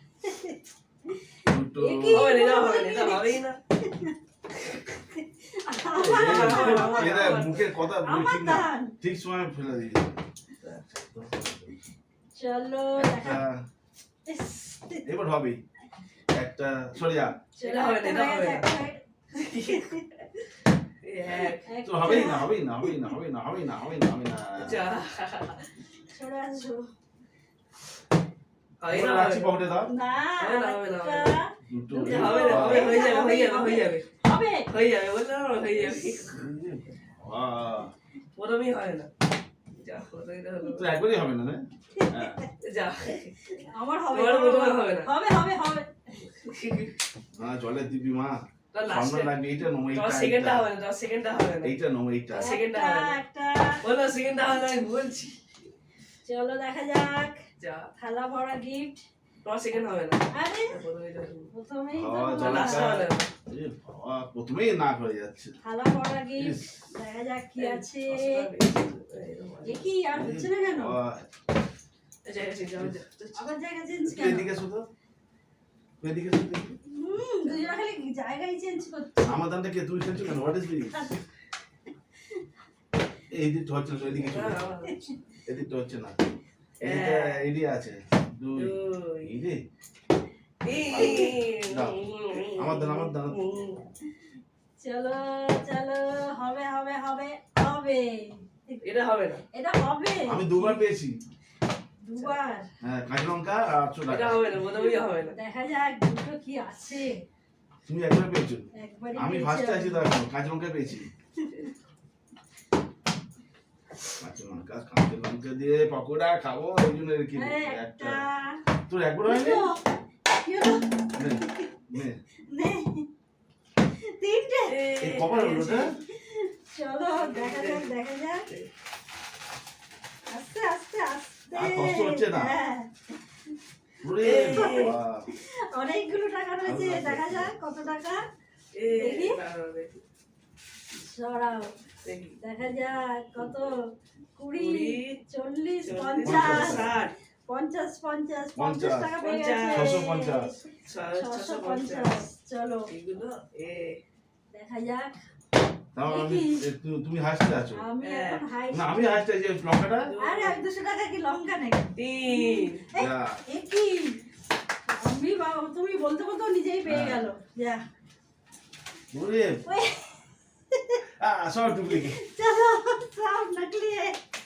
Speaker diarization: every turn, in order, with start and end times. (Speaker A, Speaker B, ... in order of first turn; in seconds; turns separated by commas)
Speaker A: 0.2-0.6, Speaker B: 1.5-2.3, Speaker A: 1.8-4.2, Speaker C: 2.1-3.6, Speaker A: 5.2-7.5, Speaker B: 5.9-10.2, Speaker C: 6.0-7.8, Speaker A: 8.0-8.9, Speaker B: 10.9-11.7, Speaker A: 12.3-13.4, Speaker B: 13.0-13.6, Speaker A: 14.3-15.0, Speaker B: 15.1-15.6, Speaker B: 16.3-17.4, Speaker A: 17.6-19.0, Speaker C: 17.6-18.8, Speaker C: 19.3-20.3, Speaker A: 19.7-20.0, Speaker C: 21.0-21.7, Speaker A: 21.7-22.6, Speaker B: 21.9-24.9, Speaker C: 24.6-25.7, Speaker A: 26.1-26.9, Speaker C: 28.8-29.6, Speaker B: 28.9-29.9, Speaker A: 29.9-34.7, Speaker C: 30.4-31.4, Speaker B: 31.7-33.0, Speaker C: 31.9-34.1, Speaker C: 34.7-36.4, Speaker B: 36.3-37.9, Speaker C: 38.4-39.1, Speaker C: 39.8-41.0, Speaker B: 40.6-42.4, Speaker A: 42.0-42.3, Speaker C: 42.6-45.1, Speaker A: 43.6-45.9, Speaker C: 46.2-46.9, Speaker B: 47.3-50.7, Speaker C: 48.7-51.8, Speaker B: 51.6-52.5, Speaker C: 52.3-53.2, Speaker A: 52.3-53.8, Speaker C: 53.8-55.4, Speaker A: 56.2-57.4, Speaker C: 57.6-57.9, Speaker A: 58.0-59.0, Speaker C: 59.5-61.5, Speaker A: 60.3-60.8, Speaker A: 61.5-63.0, Speaker B: 61.9-65.6, Speaker C: 62.4-63.3, Speaker A: 65.6-68.5, Speaker B: 66.4-66.7, Speaker C: 67.6-69.9, Speaker A: 69.6-71.0, Speaker B: 70.1-71.3, Speaker C: 72.2-73.5, Speaker A: 73.3-74.6, Speaker B: 74.1-74.9, Speaker B: 76.0-76.8, Speaker A: 76.9-79.4, Speaker C: 77.4-77.8, Speaker B: 79.2-81.2, Speaker A: 80.9-81.2, Speaker B: 83.3-84.6, Speaker C: 84.2-85.0, Speaker A: 84.9-85.1, Speaker B: 85.5-86.2, Speaker C: 86.8-87.4, Speaker B: 86.8-89.6, Speaker C: 88.6-89.5, Speaker C: 90.6-93.8, Speaker B: 90.7-93.4, Speaker A: 94.8-98.8, Speaker C: 98.8-99.5, Speaker A: 99.5-100.8, Speaker B: 100.3-101.2, Speaker A: 102.0-102.7, Speaker B: 102.8-104.5, Speaker C: 104.1-105.3, Speaker A: 105.2-107.2, Speaker B: 107.9-111.1, Speaker A: 108.7-110.1, Speaker A: 111.4-111.7, Speaker B: 114.2-118.2, Speaker A: 117.3-118.7, Speaker B: 118.9-119.7, Speaker A: 119.2-121.7, Speaker B: 121.2-122.2, Speaker A: 122.5-123.1, Speaker A: 124.1-124.8, Speaker C: 124.7-125.9, Speaker B: 125.0-126.0, Speaker A: 126.2-128.4, Speaker C: 127.2-127.9, Speaker A: 130.3-132.9, Speaker B: 131.5-132.6, Speaker B: 134.0-135.3, Speaker C: 134.2-135.0, Speaker A: 134.3-138.2, Speaker B: 136.6-137.5, Speaker C: 138.7-139.9, Speaker A: 138.9-139.4, Speaker A: 140.9-141.8, Speaker C: 142.1-142.4, Speaker A: 142.4-152.9, Speaker C: 144.5-145.2, Speaker C: 145.8-147.1, Speaker B: 146.2-146.9, Speaker B: 148.6-149.1, Speaker C: 149.2-150.1, Speaker B: 149.7-150.5, Speaker C: 150.9-152.3, Speaker C: 152.9-154.0, Speaker A: 154.5-155.2, Speaker B: 155.9-157.8, Speaker A: 156.1-156.7, Speaker A: 157.7-159.2, Speaker C: 158.0-158.5, Speaker B: 158.7-160.1, Speaker C: 160.1-160.6, Speaker A: 160.2-164.2, Speaker C: 162.0-162.9, Speaker B: 162.9-163.4, Speaker A: 164.9-167.8, Speaker B: 166.9-167.2, Speaker B: 169.1-169.6, Speaker A: 169.7-170.2, Speaker A: 170.7-171.0, Speaker B: 171.1-172.2, Speaker A: 171.9-174.2